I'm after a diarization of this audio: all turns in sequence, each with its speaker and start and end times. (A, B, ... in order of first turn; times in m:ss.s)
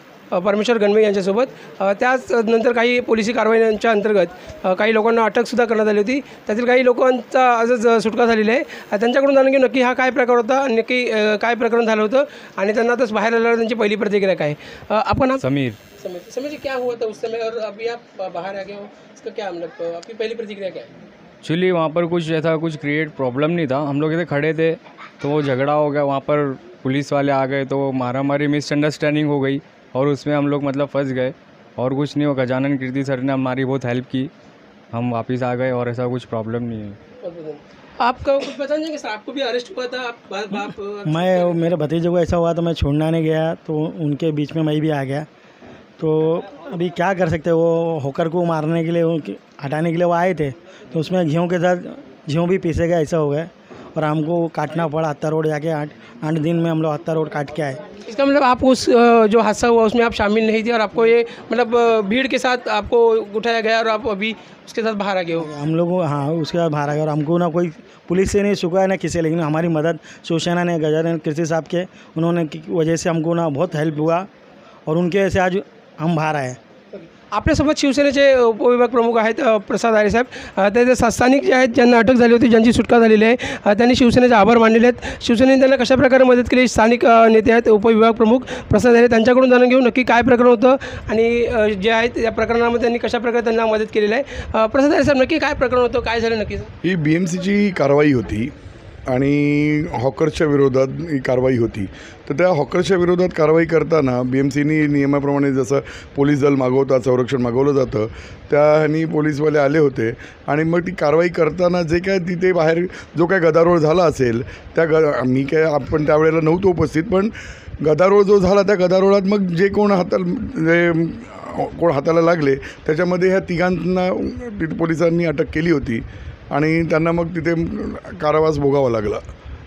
0:00.3-0:15.4 A
0:15.4-0:15.8 B
0:16.0-0:20.9 A
0:21.4-0:34.3 B
0:34.9-0:37.0 B
0:37.2-0:41.6 A
0:41.1-0:45.3 C
0:46.0-0:57.8 C
0:58.0-1:05.5 A
1:05.4-1:14.3 C
1:14.9-1:16.6 C
1:17.0-1:36.7 A
1:36.8-1:38.5 D
1:39.1-2:09.2 D